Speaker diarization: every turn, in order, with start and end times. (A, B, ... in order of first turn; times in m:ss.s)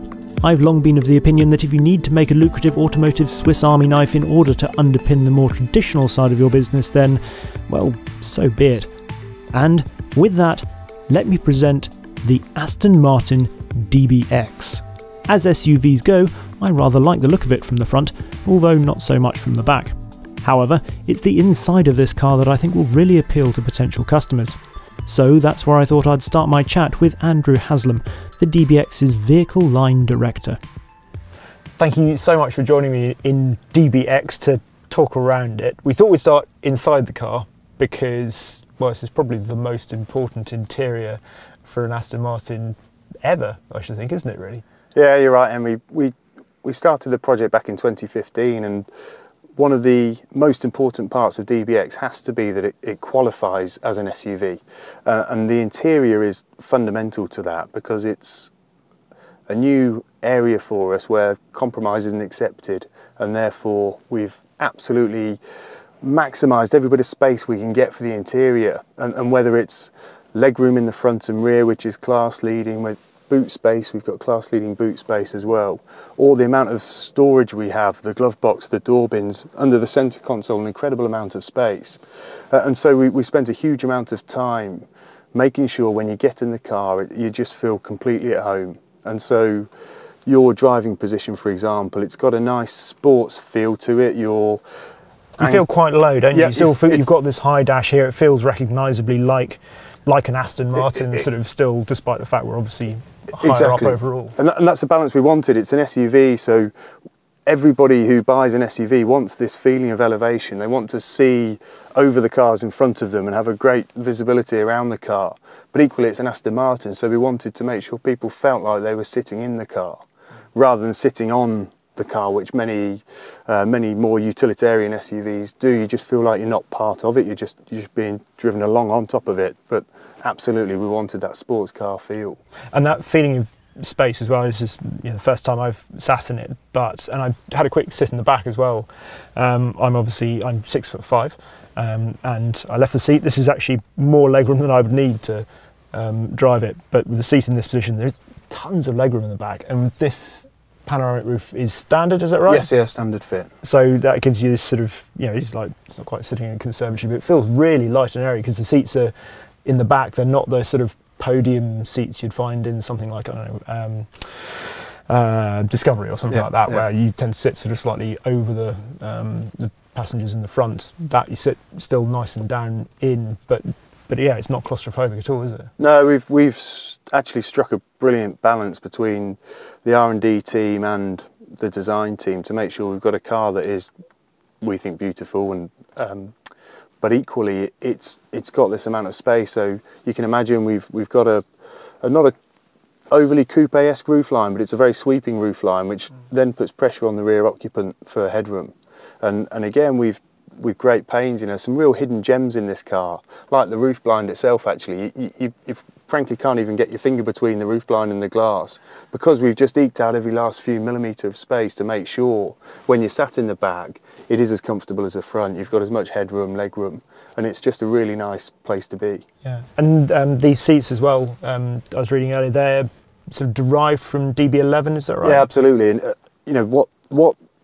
0:00.4-0:08.9 A
0:09.5-0:30.6 A
0:31.8-0:44.6 B
0:44.9-0:48.9 C
0:49.6-0:58.5 C
0:59.5-1:05.4 C
1:06.0-1:22.0 C
1:22.5-1:29.7 C
1:30.2-1:34.6 C
1:35.4-1:44.3 B
1:36.3-1:37.0 C
1:43.4-1:46.7 C
1:47.4-2:00.0 C
2:00.5-2:12.4 C
2:12.7-2:32.7 B
2:32.5-2:33.5 C
2:33.6-2:55.7 B
2:46.3-2:46.8 C
2:55.8-3:03.9 C
3:04.6-3:06.3 C
3:07.0-3:11.4 C
3:12.0-3:12.3 C
3:13.1-3:39.2 C
3:39.4-3:45.5 B
3:45.2-3:47.4 C